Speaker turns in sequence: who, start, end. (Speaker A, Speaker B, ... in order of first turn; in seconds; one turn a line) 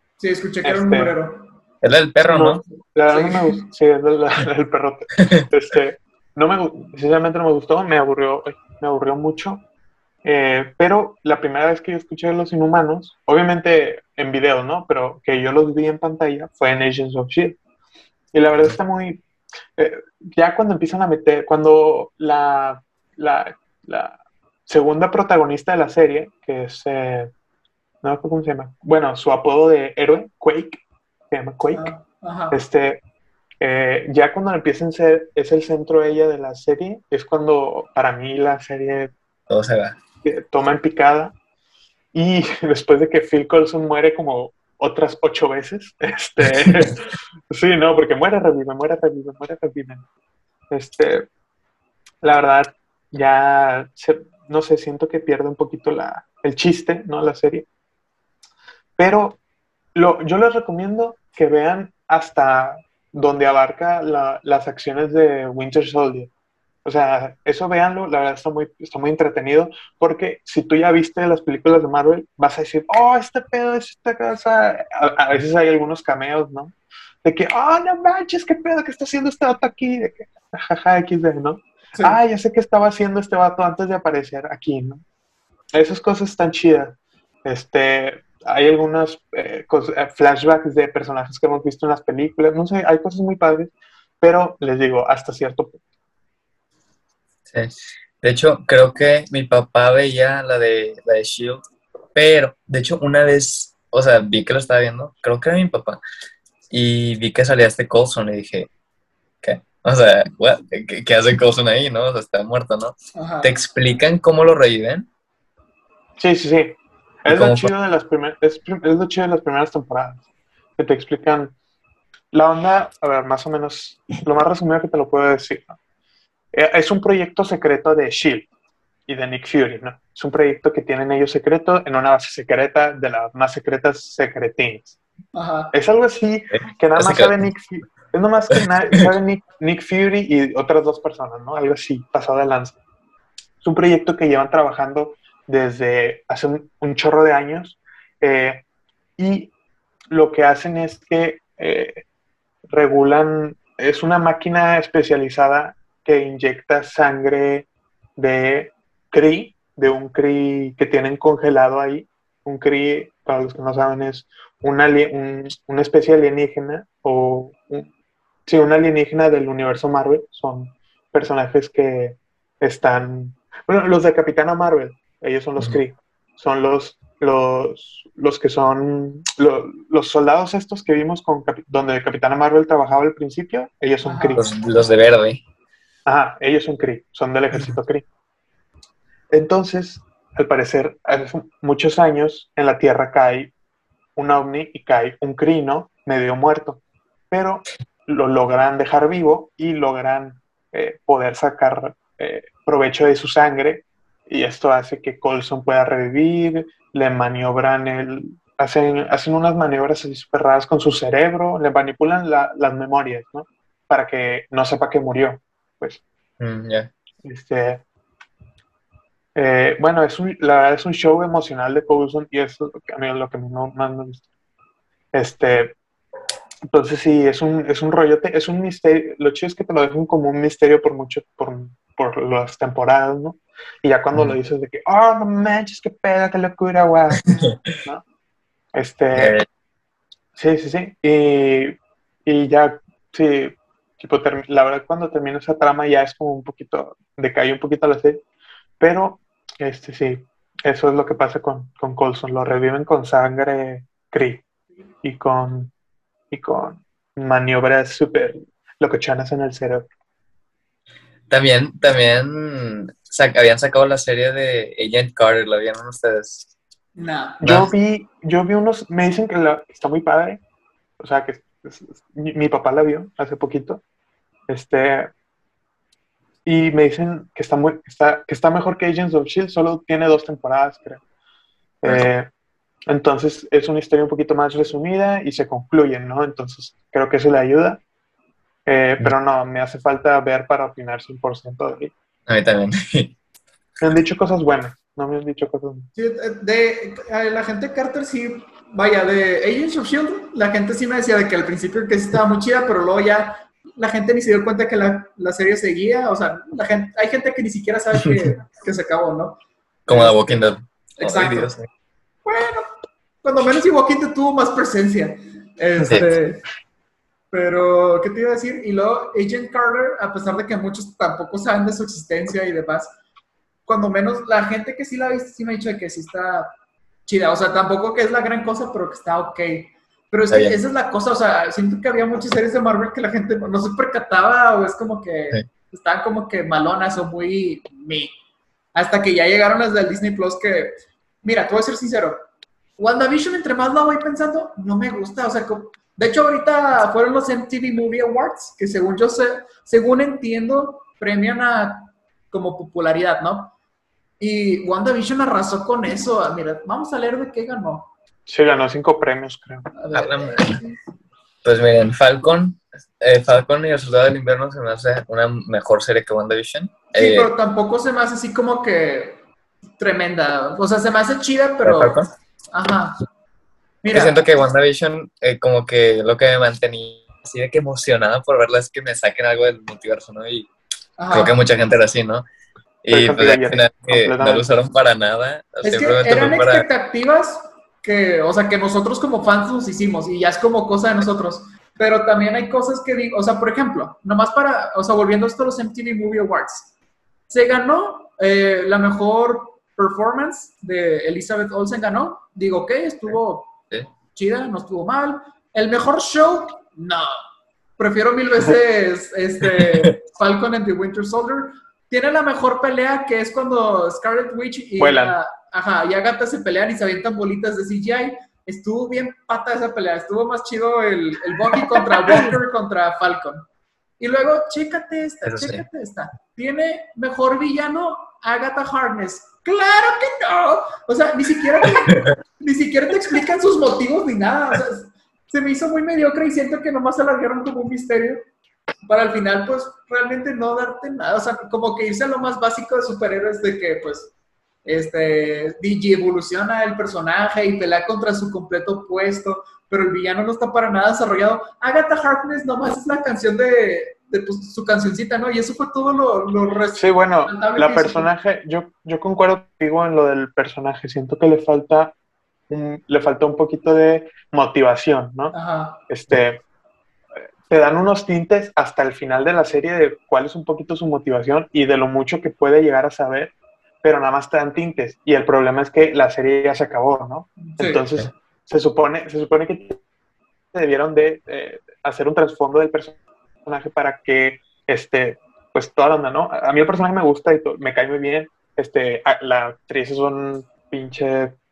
Speaker A: 0.2-1.4
Speaker B: 0.6-1.1
Speaker C: 1.8-2.6
Speaker B: 2.2-9.6
Speaker A: 3.1-3.6
Speaker B: 10.2-17.6
Speaker B: 18.3-19.2
Speaker B: 19.8-27.3
Speaker B: 28.0-30.8
Speaker B: 31.3-31.9
Speaker A: 31.7-32.6
Speaker B: 32.5-33.0
Speaker B: 33.6-39.1
Speaker C: 39.5-40.0
Speaker B: 40.2-41.3
Speaker B: 42.1-50.0
Speaker C: 46.5-46.9
Speaker B: 50.7-51.3
Speaker B: 52.2-57.7
Speaker B: 59.0-59.4
Speaker B: 59.9-66.3
Speaker B: 66.8-85.0
Speaker B: 85.7-95.8
Speaker C: 97.5-101.6
Speaker C: 102.1-106.0
Speaker C: 106.7-108.7
Speaker C: 109.4-115.1
Speaker A: 113.1-113.5
Speaker B: 116.2-120.2
Speaker C: 117.3-117.7
Speaker B: 120.8-121.5
Speaker B: 122.3-125.8
Speaker B: 126.5-128.5
Speaker B: 129.1-135.0
Speaker A: 135.3-135.7
Speaker B: 135.7-142.8
Speaker C: 136.5-137.4
Speaker B: 143.6-148.6
Speaker B: 149.2-149.5
Speaker B: 150.1-152.0
Speaker B: 152.7-167.9
Speaker B: 168.4-184.5
Speaker A: 184.0-184.4
Speaker C: 184.3-185.4
Speaker B: 186.1-188.1
Speaker B: 189.3-193.5
Speaker B: 194.2-216.0
Speaker C: 216.4-216.9
Speaker B: 217.2-217.8
Speaker B: 219.3-224.2
Speaker B: 225.1-225.8
Speaker B: 226.7-238.0
Speaker B: 238.7-239.4
Speaker C: 239.1-239.4
Speaker B: 240.3-248.2
Speaker B: 248.8-254.4
Speaker B: 255.0-255.7
Speaker B: 256.3-259.9
Speaker C: 261.3-266.5
Speaker A: 266.9-267.4
Speaker B: 267.4-270.4
Speaker C: 267.4-267.7
Speaker B: 271.0-273.8
Speaker B: 274.5-275.1
Speaker B: 276.4-281.0
Speaker B: 281.8-282.3
Speaker B: 282.9-287.8
Speaker B: 288.6-291.9
Speaker C: 292.3-293.1
Speaker B: 293.8-295.9
Speaker A: 295.9-310.5
Speaker C: 309.9-311.7
Speaker A: 311.0-311.5
Speaker A: 312.2-312.7
Speaker A: 313.2-316.4
Speaker C: 315.8-316.1
Speaker A: 317.3-322.9
Speaker A: 323.7-326.5
Speaker A: 327.1-338.1
Speaker C: 330.3-330.6
Speaker A: 338.7-342.2
Speaker A: 342.8-353.5
Speaker A: 354.2-357.9
Speaker B: 358.3-359.7
Speaker A: 359.8-360.8
Speaker C: 359.9-360.6
Speaker C: 361.4-367.3
Speaker A: 366.9-369.2
Speaker A: 369.8-372.0
Speaker C: 371.6-372.1
Speaker A: 372.5-373.0
Speaker A: 373.8-374.3
Speaker C: 373.9-380.5
Speaker A: 381.0-381.4
Speaker C: 381.1-382.2
Speaker C: 382.8-386.7
Speaker B: 382.9-384.5
Speaker A: 385.6-396.7
Speaker A: 397.3-403.5
Speaker A: 404.1-407.1
Speaker A: 407.8-423.5
Speaker C: 409.6-409.9
Speaker B: 414.8-415.1
Speaker A: 424.0-438.2
Speaker C: 425.2-425.6
Speaker C: 431.6-432.1
Speaker A: 438.9-444.1
Speaker A: 444.6-458.1
Speaker B: 456.7-461.9
Speaker B: 462.5-465.3
Speaker A: 465.3-465.8
Speaker B: 465.9-466.4
Speaker B: 467.5-479.8
Speaker A: 477.4-477.8
Speaker B: 480.5-491.4